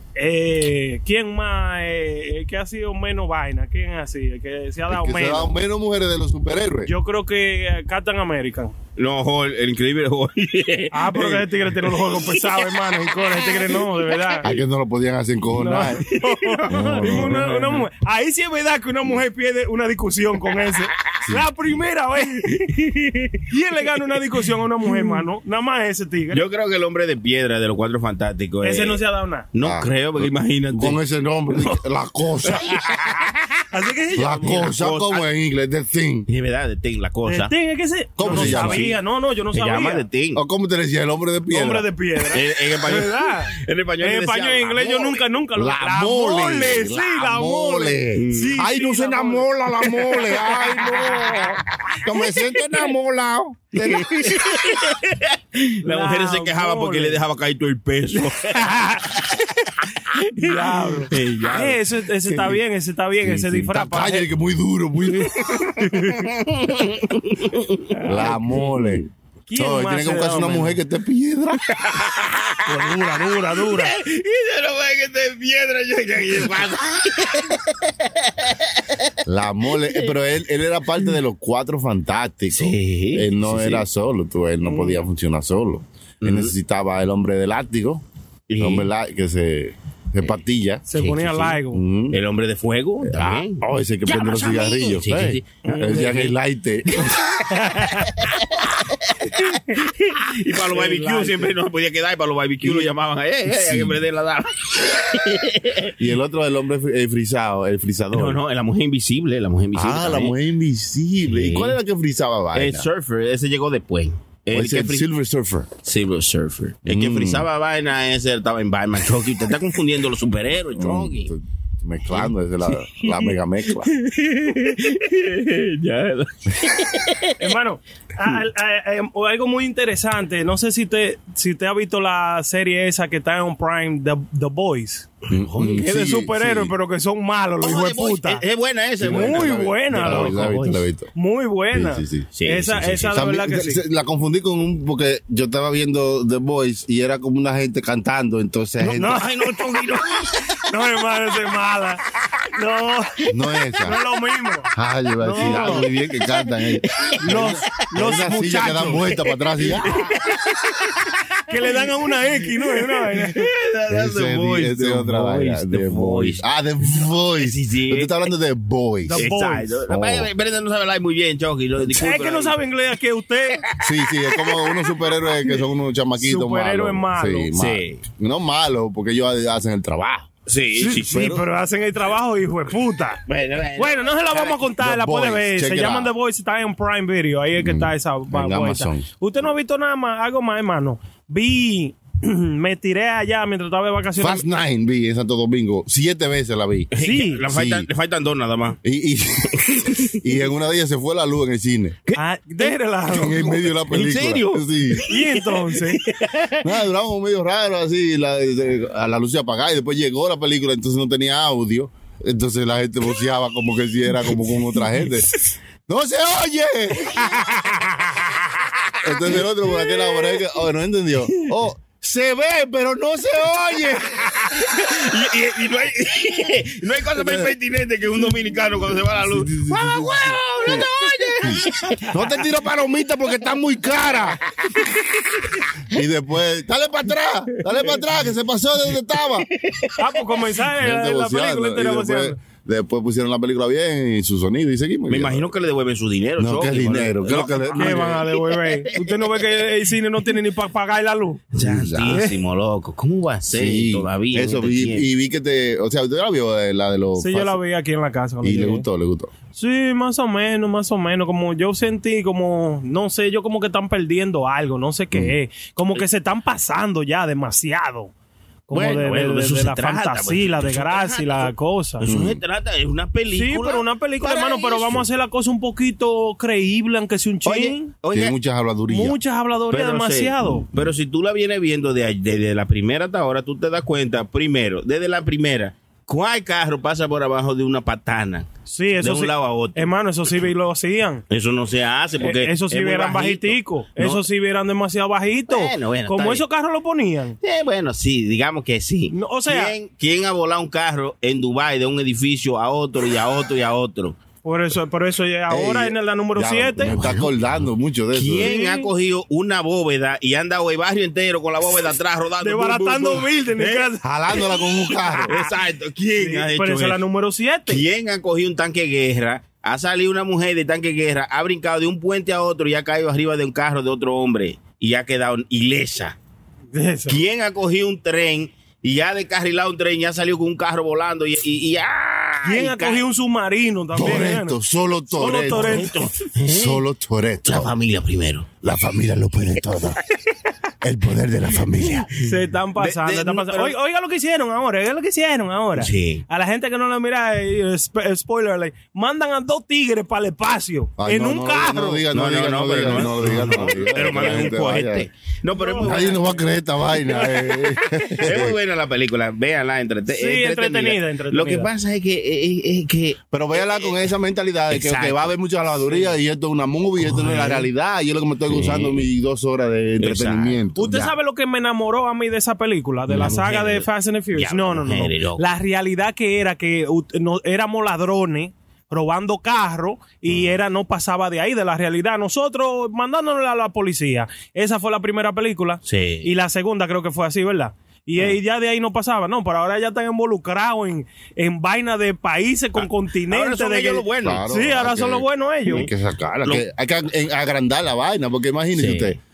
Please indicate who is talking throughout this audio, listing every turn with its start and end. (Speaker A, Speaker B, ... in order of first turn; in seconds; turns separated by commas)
Speaker A: 0.1-5.5, Speaker B: 4.9-6.9, Speaker A: 6.8-8.7, Speaker C: 9.0-14.6, Speaker A: 10.9-14.4, Speaker B: 14.4-16.0, Speaker A: 15.6-22.9, Speaker C: 15.8-17.9, Speaker B: 16.7-17.4, Speaker B: 21.2-21.5, Speaker C: 22.5-23.3, Speaker A: 23.4-26.4, Speaker C: 26.3-29.0, Speaker A: 28.6-29.5, Speaker C: 29.5-31.0, Speaker B: 29.6-32.9, Speaker C: 31.5-31.8, Speaker C: 32.5-33.5, Speaker A: 33.7-34.7, Speaker B: 34.1-36.3, Speaker C: 34.4-35.2, Speaker C: 36.3-37.5, Speaker A: 37.2-40.0, Speaker B: 38.2-38.9, Speaker C: 38.2-39.0, Speaker C: 39.5-40.4, Speaker B: 40.3-41.9, Speaker A: 41.5-49.5, Speaker C: 42.3-45.2, Speaker B: 45.5-54.6, Speaker C: 48.1-48.6, Speaker C: 50.5-52.0, Speaker C: 53.8-59.5, Speaker A: 55.8-57.2, Speaker A: 58.2-59.4, Speaker C: 60.1-61.8, Speaker A: 60.3-64.3, Speaker B: 62.2-62.6, Speaker B: 63.2-65.7, Speaker C: 65.4-68.0, Speaker A: 65.8-66.3, Speaker A: 67.9-68.7, Speaker B: 68.0-71.7, Speaker A: 69.5-70.8, Speaker C: 71.7-73.0, Speaker A: 72.6-73.9, Speaker C: 73.6-79.1, Speaker B: 79.2-88.0, Speaker C: 82.5-83.8, Speaker A: 84.7-85.0, Speaker C: 86.2-86.5, Speaker C: 88.5-88.9, Speaker B: 88.6-90.8, Speaker A: 90.9-91.8, Speaker C: 90.9-91.6, Speaker B: 91.7-92.2, Speaker C: 92.1-96.3, Speaker B: 93.0-97.2, Speaker A: 95.6-96.1, Speaker C: 97.0-97.4, Speaker A: 97.5-98.2, Speaker C: 98.0-105.9, Speaker A: 100.7-101.5, Speaker B: 102.6-102.9, Speaker B: 103.5-104.0, Speaker B: 106.0-108.4, Speaker C: 108.1-110.3, Speaker B: 109.7-112.9, Speaker C: 111.2-111.8, Speaker C: 112.5-115.1, Speaker B: 114.5-115.7, Speaker C: 115.8-121.3, Speaker B: 116.8-117.5, Speaker B: 120.8-123.9, Speaker C: 122.8-127.3, Speaker A: 127.4-135.1, Speaker C: 135.3-135.8, Speaker B: 135.3-136.7, Speaker A: 135.7-138.4, Speaker C: 137.6-140.8, Speaker B: 139.0-141.1, Speaker A: 139.0-143.8, Speaker B: 141.7-149.2, Speaker C: 142.3-143.2, Speaker A: 148.8-149.4, Speaker C: 148.9-150.6, Speaker A: 150.7-155.8, Speaker B: 153.3-154.0, Speaker B: 154.7-160.0, Speaker C: 155.4-157.6, Speaker A: 157.2-159.1, Speaker C: 159.6-161.8, Speaker A: 161.5-163.5, Speaker C: 162.7-166.4, Speaker B: 163.9-169.3, Speaker C: 167.4-168.2, Speaker A: 169.1-169.8, Speaker C: 169.2-172.6, Speaker B: 169.9-170.3, Speaker A: 171.9-173.7, Speaker C: 173.7-174.9, Speaker B: 173.8-180.3, Speaker A: 176.2-177.5, Speaker C: 177.5-178.0, Speaker C: 180.5-181.4, Speaker A: 180.8-183.2, Speaker B: 181.1-181.4, Speaker C: 183.3-184.6, Speaker A: 183.8-194.4, Speaker B: 184.8-186.1, Speaker B: 187.6-189.1, Speaker B: 194.2-197.9, Speaker C: 196.9-198.8, Speaker A: 197.0-197.4, Speaker B: 198.8-202.0, Speaker C: 199.5-200.3, Speaker C: 202.1-202.7, Speaker A: 202.2-203.7, Speaker B: 203.1-205.0, Speaker C: 203.9-206.8, Speaker A: 205.1-206.1, Speaker B: 206.6-215.3, Speaker B: 215.9-217.4, Speaker C: 217.2-220.4, Speaker B: 219.0-224.3, Speaker C: 224.1-232.3, Speaker B: 227.2-227.5, Speaker B: 228.7-230.9, Speaker B: 231.4-234.4, Speaker C: 234.2-235.7, Speaker B: 235.9-239.5, Speaker C: 239.6-240.2, Speaker A: 239.9-242.4, Speaker B: 240.7-245.5, Speaker C: 245.1-249.4, Speaker B: 246.4-248.2, Speaker A: 247.7-251.4, Speaker C: 251.5-255.1, Speaker B: 251.6-252.2, Speaker A: 252.1-252.3, Speaker B: 253.5-257.6, Speaker A: 257.2-258.9, Speaker B: 258.4-259.3, Speaker A: 259.5-268.1, Speaker A: 268.7-272.1, Speaker C: 268.7-275.0, Speaker B: 272.0-272.4, Speaker A: 273.3-277.9, Speaker C: 277.4-278.3, Speaker B: 278.1-279.2, Speaker A: 278.9-280.7, Speaker C: 279.7-288.5, Speaker A: 288.7-291.2, Speaker C: 289.0-289.9, Speaker C: 291.3-294.2, Speaker A: 292.2-297.4, Speaker C: 295.5-296.4, Speaker C: 297.4-304.2, Speaker A: 299.1-299.7, Speaker A: 304.4-306.9, Speaker B: 305.5-308.5, Speaker C: 306.9-307.3, Speaker C: 308.1-313.9, Speaker A: 308.4-308.9, Speaker A: 312.4-315.5, Speaker B: 314.0-315.3, Speaker C: 315.3-317.0, Speaker A: 316.2-317.8, Speaker C: 317.7-326.1, Speaker A: 326.7-327.2, Speaker C: 327.1-333.0, Speaker A: 332.4-334.6, Speaker B: 333.9-335.9, Speaker A: 335.2-335.9, Speaker C: 335.5-336.8, Speaker B: 336.4-337.7, Speaker C: 337.4-338.5, Speaker B: 338.6-340.0, Speaker B: 340.8-342.1, Speaker C: 341.9-343.7, Speaker A: 342.2-352.1, Speaker C: 345.8-346.2, Speaker B: 351.0-355.1, Speaker C: 352.1-356.4, Speaker A: 353.1-353.8, Speaker A: 355.5-356.3, Speaker B: 355.8-358.6, Speaker A: 357.0-358.2, Speaker C: 358.2-363.9, Speaker A: 360.1-361.7, Speaker B: 363.3-371.1, Speaker C: 364.7-365.3, Speaker C: 367.0-367.7, Speaker C: 368.5-369.1, Speaker C: 370.0-370.6, Speaker A: 370.8-395.9, Speaker C: 373.1-375.5, Speaker C: 385.9-386.3, Speaker C: 392.8-394.4, Speaker B: 394.2-399.2, Speaker C: 398.8-399.2